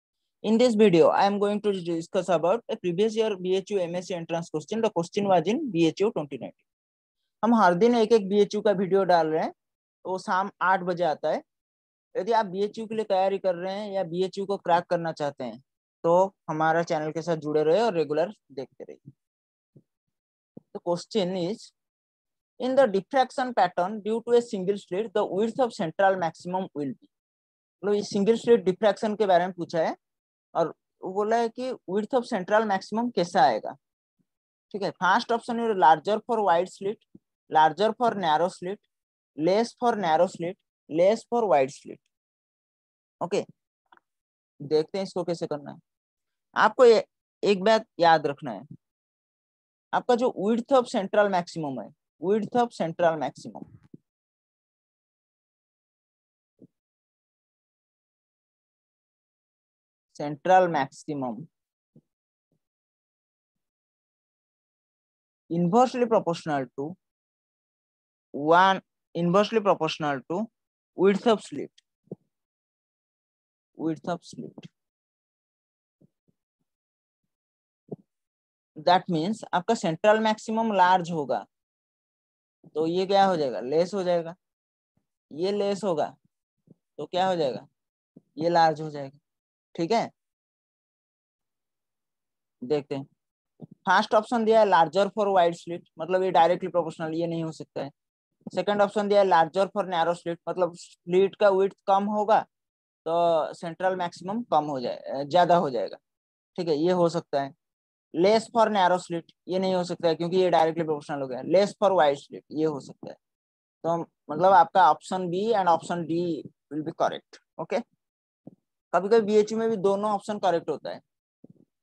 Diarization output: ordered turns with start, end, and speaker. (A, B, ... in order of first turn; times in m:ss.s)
0:00.4-0:06.6 A
0:07.4-0:09.5 A
0:10.0-0:11.4 A
0:12.2-0:19.0 A
0:20.7-0:21.7 A
0:22.6-0:27.1 A
0:27.8-0:30.0 A
0:30.6-0:33.8 A
0:34.7-0:38.8 A
0:39.4-0:42.0 A
0:44.7-0:45.8 A
0:46.6-0:48.6 A
0:49.9-0:53.7 A
1:00.1-1:01.4 A
1:05.5-1:06.9 A
1:08.4-1:10.4 A
1:11.0-1:11.8 A
1:13.8-1:14.7 A
1:18.8-1:21.4 A
1:22.7-1:24.4 A
1:25.4-1:26.1 A
1:27.0-1:27.7 A
1:28.4-1:29.2 A
1:29.8-1:30.1 A
1:32.7-1:33.0 A
1:33.9-1:37.9 A
1:38.5-1:42.4 A
1:43.0-1:46.0 A
1:46.6-1:47.5 A
1:48.2-1:53.2 A
1:53.8-1:57.8 A
1:58.9-2:01.0 A